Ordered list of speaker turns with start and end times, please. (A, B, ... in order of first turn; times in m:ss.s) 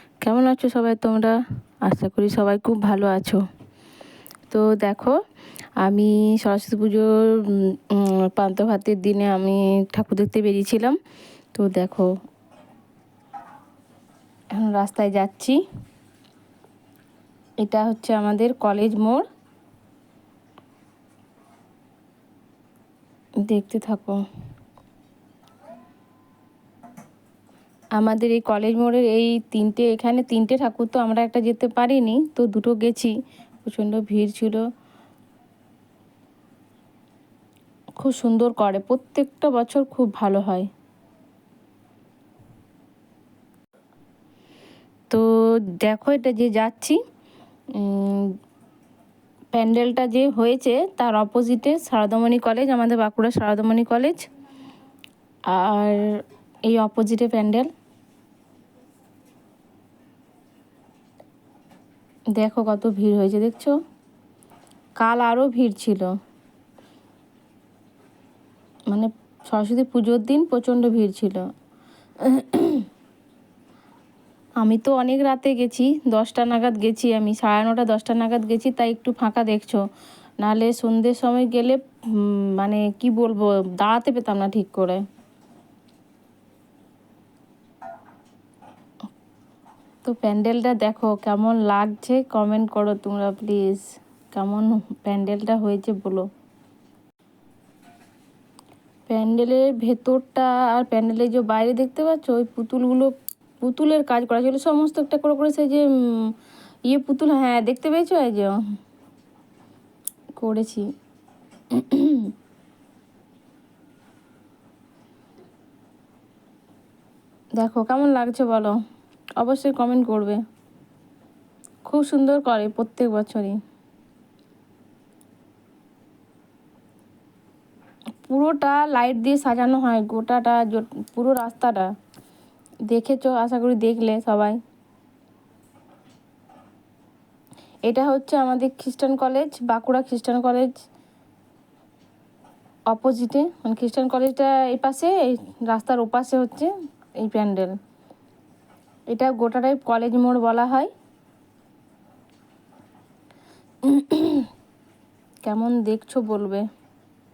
0:00.2-0:03.4 A
0:04.5-0:05.2 A
0:05.8-0:11.0 A
0:11.5-0:12.1 A
0:14.5-0:15.6 A
0:17.6-0:19.2 A
0:23.4-0:24.2 A
0:28.0-0:33.1 A
0:33.6-0:34.6 A
0:38.0-0:40.7 A
0:45.1-0:47.0 A
0:47.7-0:48.3 A
0:49.5-0:54.2 A
0:55.5-0:56.0 A
0:56.7-0:57.7 A
1:02.4-1:03.7 A
1:05.0-1:06.1 A
1:08.9-1:11.5 A
1:12.2-1:12.9 A
1:14.6-1:19.8 A
1:20.4-1:25.0 A
1:30.0-1:36.2 A
1:39.1-1:46.3 A
1:46.8-1:48.6 A
1:50.4-1:50.8 A
1:51.7-1:52.3 A
1:57.6-1:58.8 A
1:59.4-2:00.4 A
2:01.8-2:03.6 A
2:08.2-2:11.9 A
2:12.9-2:14.6 A
2:17.9-2:20.8 A
2:22.9-2:27.8 A
2:29.1-2:30.9 A
2:33.8-2:34.5 A
2:35.4-2:36.6 A